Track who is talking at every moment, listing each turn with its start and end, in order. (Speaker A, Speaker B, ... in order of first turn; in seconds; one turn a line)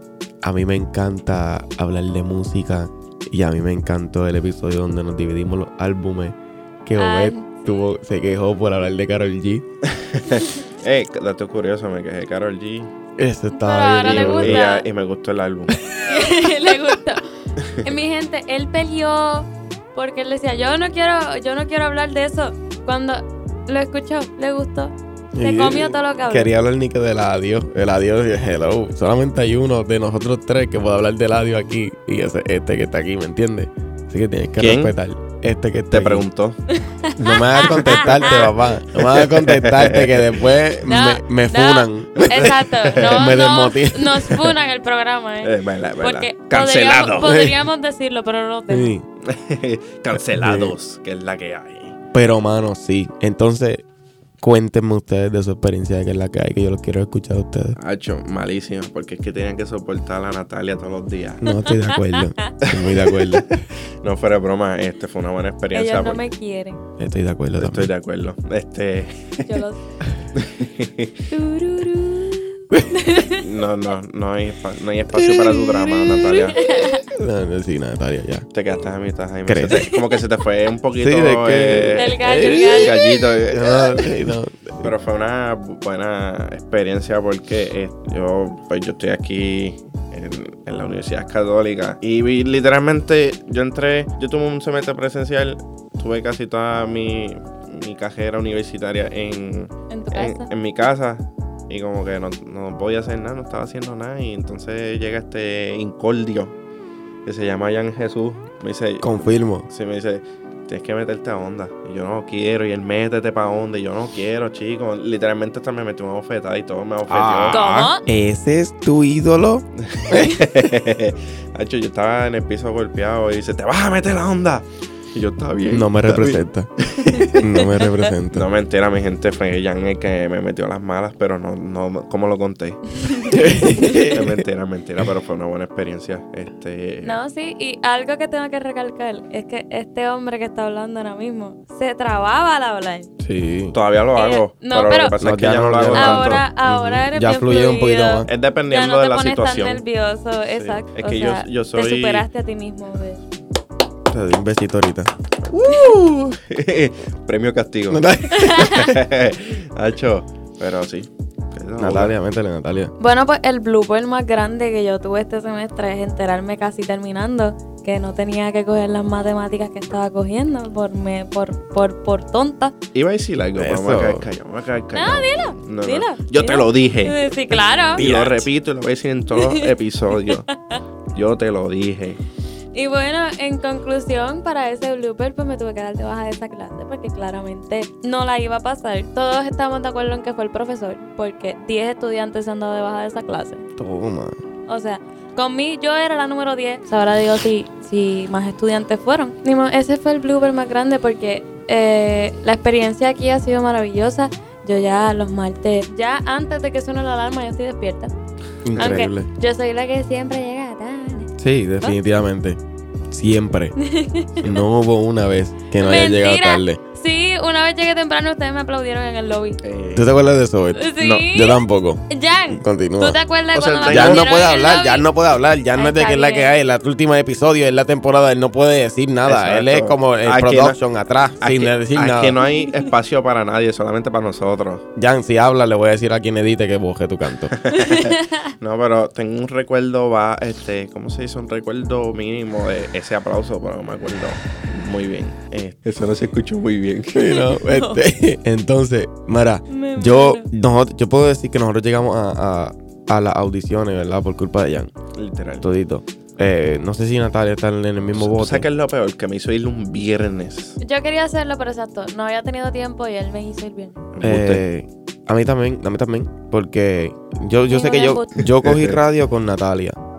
Speaker A: 0.4-9.6
Speaker B: 7.0-7.9
Speaker C: 10.1-12.9
Speaker A: 13.2-14.7
Speaker B: 13.5-14.9
Speaker C: 14.0-15.7
Speaker A: 15.7-16.7
Speaker B: 16.0-17.2
Speaker B: 17.8-26.5
Speaker A: 25.3-36.2
Speaker C: 34.6-34.9
Speaker C: 35.9-36.6
Speaker B: 36.8-38.5
Speaker A: 37.2-44.5
Speaker C: 37.9-40.4
Speaker B: 40.8-48.9
Speaker C: 42.2-43.3
Speaker C: 45.4-47.3
Speaker A: 47.2-47.6
Speaker A: 48.7-49.0
Speaker C: 49.2-52.0
Speaker A: 50.1-50.7
Speaker A: 52.1-53.8
Speaker A: 54.4-57.8
Speaker C: 57.8-61.4
Speaker A: 61.4-63.5
Speaker C: 62.8-66.2
Speaker B: 65.7-66.8
Speaker A: 67.0-67.9
Speaker C: 67.6-69.5
Speaker B: 69.5-69.8
Speaker C: 70.4-71.1
Speaker B: 71.3-73.4
Speaker C: 73.3-76.6
Speaker A: 75.2-76.0
Speaker B: 76.3-77.0
Speaker A: 76.6-78.5
Speaker C: 78.5-84.3
Speaker A: 79.5-79.8
Speaker B: 79.7-80.0
Speaker A: 80.9-84.9
Speaker B: 81.9-83.2
Speaker C: 84.8-106.5
Speaker B: 99.9-100.5
Speaker C: 107.2-117.6
Speaker A: 109.0-109.7
Speaker A: 117.1-120.4
Speaker B: 117.5-118.0
Speaker C: 119.9-127.4
Speaker A: 125.7-126.7
Speaker A: 127.3-128.5
Speaker B: 127.6-128.1
Speaker C: 128.3-137.2
Speaker A: 133.3-134.4
Speaker B: 137.0-143.1
Speaker A: 143.2-143.8
Speaker C: 143.7-146.4
Speaker B: 144.1-145.1
Speaker A: 145.2-148.3
Speaker B: 145.9-153.2
Speaker C: 148.3-149.8
Speaker C: 150.5-152.3
Speaker A: 154.1-155.1
Speaker C: 155.5-158.1
Speaker A: 157.9-158.9
Speaker B: 158.3-158.9
Speaker C: 158.6-162.1
Speaker A: 161.8-162.9
Speaker B: 163.0-172.7
Speaker C: 172.9-180.5
Speaker A: 173.6-174.2
Speaker B: 174.9-178.4
Speaker B: 179.3-180.8
Speaker C: 181.1-182.2
Speaker B: 182.7-193.6
Speaker A: 193.8-194.4
Speaker B: 194.7-208.1
Speaker A: 208.6-209.3
Speaker C: 208.7-209.0
Speaker B: 208.7-211.3
Speaker A: 211.4-212.6
Speaker A: 213.1-213.7
Speaker B: 213.8-214.5
Speaker A: 214.4-216.8
Speaker B: 215.8-219.6
Speaker C: 219.6-220.2
Speaker A: 219.9-232.4
Speaker B: 220.7-225.1
Speaker C: 221.0-221.3
Speaker C: 223.6-224.3
Speaker B: 225.7-226.5
Speaker C: 229.2-230.8
Speaker C: 231.4-234.8
Speaker A: 234.9-237.5
Speaker C: 237.5-247.3
Speaker B: 237.7-238.3
Speaker A: 247.1-254.9
Speaker B: 247.2-248.0
Speaker B: 249.7-250.5
Speaker C: 255.1-255.7
Speaker A: 255.6-258.6
Speaker C: 258.1-260.8
Speaker B: 260.8-264.0
Speaker C: 264.1-264.6
Speaker A: 264.2-270.0
Speaker B: 267.7-268.3
Speaker C: 268.6-269.0